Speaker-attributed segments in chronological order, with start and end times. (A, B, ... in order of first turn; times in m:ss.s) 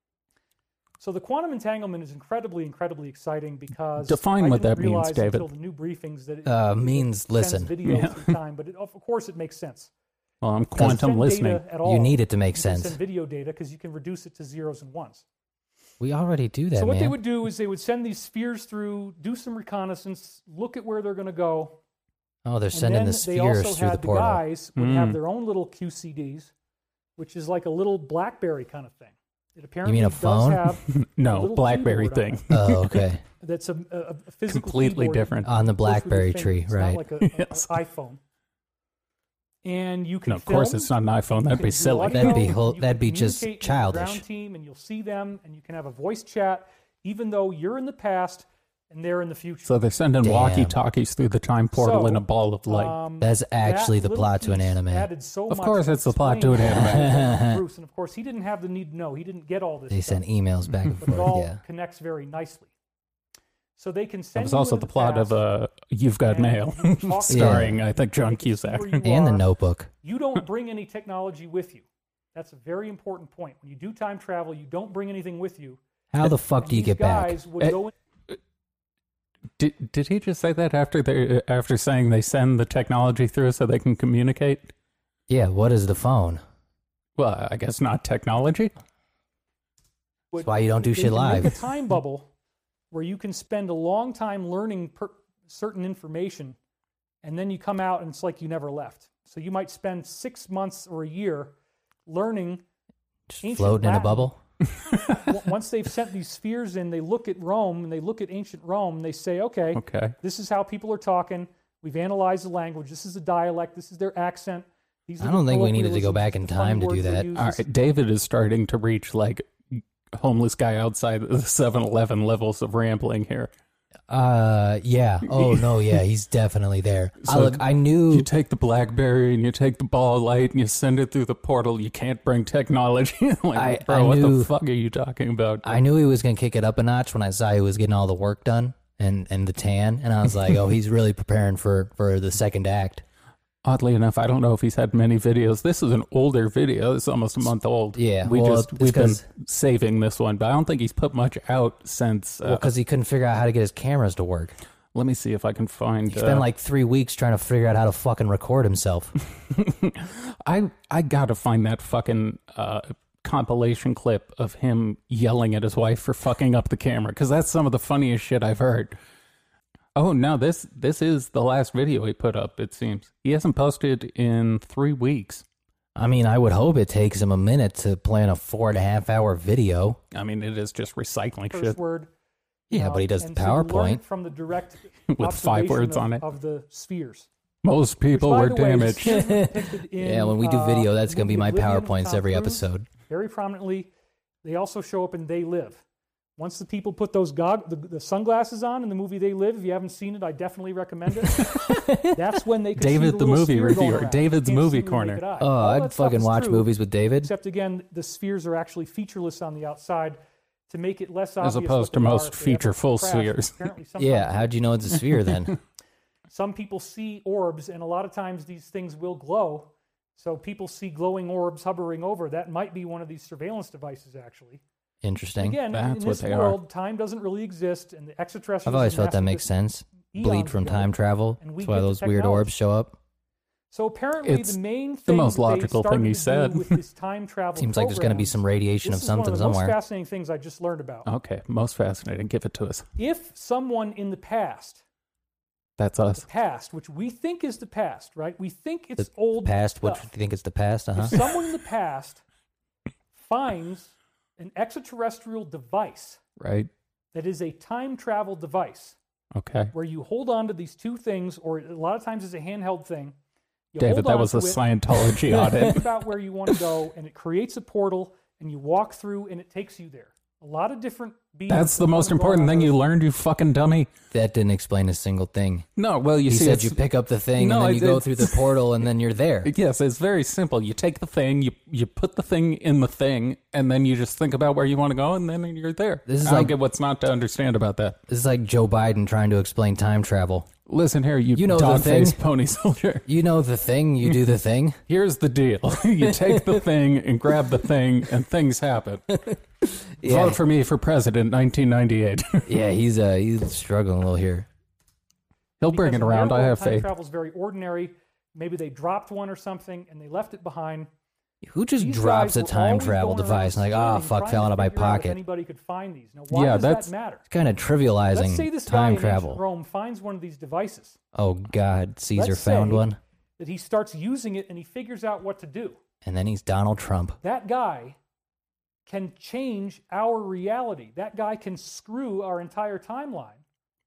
0:01.0-0:09.9 A
0:04.0-0:05.5 B
0:06.4-0:07.7 C
0:07.9-0:08.3 B
0:10.4-0:11.6 B
0:10.8-0:15.2 A
0:11.8-0:13.0 C
0:16.0-0:17.2 C
0:16.7-0:21.8 A
0:22.4-0:24.4 C
0:22.7-0:26.5 A
0:24.8-0:25.2 B
0:27.2-0:32.4 A
0:29.8-0:30.7 C
0:30.9-0:33.1 B
0:32.5-0:33.2 C
0:33.4-0:38.2 A
0:34.5-0:35.5 B
0:35.4-0:37.0 C
0:37.2-0:37.7 B
0:39.6-0:40.9 A
0:40.3-0:42.5 B
0:41.4-0:49.7 A
0:42.1-0:44.2 C
0:49.6-0:52.9 B
0:50.2-0:50.8 C
0:51.7-1:00.2 A
0:53.2-0:55.1 C
0:55.5-0:57.2 B
0:56.7-0:57.6 C
0:59.9-1:01.6 C
1:01.0-1:02.7 A
1:03.8-1:05.4 A
1:04.4-1:09.0 B
1:06.3-1:09.5 A
1:07.3-1:07.8 C
1:09.0-1:09.9 C
1:10.0-1:15.8 A
1:16.1-1:17.4 C
1:16.6-1:17.9 A
1:19.6-1:24.7 B
1:25.3-1:26.4 C
1:27.2-1:28.7 B
1:30.3-1:32.3 A
1:30.4-1:31.5 C
1:32.9-1:36.6 A
1:37.2-1:41.5 A
1:42.1-1:42.6 A
1:43.3-1:44.4 C
1:43.4-1:44.3 A
1:44.9-1:45.2 B
1:45.1-1:57.6 A
1:49.7-1:50.1 B
1:55.2-1:57.3 C
1:57.3-2:03.5 B
2:04.1-2:08.3 C
2:05.3-2:05.6 B
2:07.2-2:15.7 B
2:13.5-2:14.5 C
2:15.6-2:23.0 C
2:23.6-2:32.7 B
2:27.9-2:29.2 C
2:32.4-2:34.5 C
2:34.9-2:36.4 B
2:36.1-2:39.1 C
2:39.4-2:49.0 B
2:49.9-2:55.4 B
2:56.0-3:00.0 C
3:00.1-3:01.8 B
3:01.5-3:02.1 A
3:02.7-3:04.0 C
3:02.7-3:07.3 A
3:05.1-3:06.2 B
3:07.6-3:09.4 B
3:08.1-3:13.9 A
3:09.2-3:12.9 C
3:14.4-3:15.8 A
3:16.4-3:34.5 A
3:22.7-3:25.2 B
3:25.4-3:27.3 C
3:31.4-3:33.7 B
3:34.0-3:35.5 C
3:36.3-3:44.6 A
3:45.0-3:45.6 C
3:45.4-3:49.5 A
3:45.7-3:46.6 B
3:48.6-3:53.0 C
3:50.0-3:52.5 A
3:53.7-4:01.1 A
3:54.2-3:56.8 B
3:57.6-3:59.8 C
4:01.0-4:02.9 B
4:03.0-4:04.8 A
4:05.8-4:06.2 B
4:06.2-4:10.1 A
4:09.0-4:11.2 C
4:11.0-4:12.2 A
4:13.1-4:16.2 A
4:16.4-4:16.7 B
4:17.1-4:19.0 A
4:19.3-4:19.7 B
4:19.7-4:23.2 A
4:23.7-4:32.8 A
4:23.8-4:25.9 B
4:31.5-4:33.9 B
4:34.1-4:35.6 C
4:35.8-4:36.8 B
4:36.2-4:39.5 C
4:37.4-4:38.5 B
4:39.4-4:48.0 B
4:46.0-4:46.5 C
4:48.1-4:50.5 C
4:50.7-4:53.0 B
4:51.3-4:52.2 C
4:53.0-4:54.8 C
4:54.9-4:59.2 B
4:56.2-4:56.6 C
5:00.0-5:00.4 C
5:00.0-5:02.5 B
5:02.5-5:04.5 C
5:05.6-5:06.9 B
5:05.6-5:10.9 A
5:11.4-5:15.2 C
5:11.8-5:17.2 A
5:16.3-5:16.9 B
5:17.3-5:19.4 C
5:18.1-5:21.0 A
5:21.1-5:23.0 C
5:22.1-5:25.8 A
5:26.0-5:27.2 C
5:27.2-5:28.0 A
5:28.9-5:33.4 A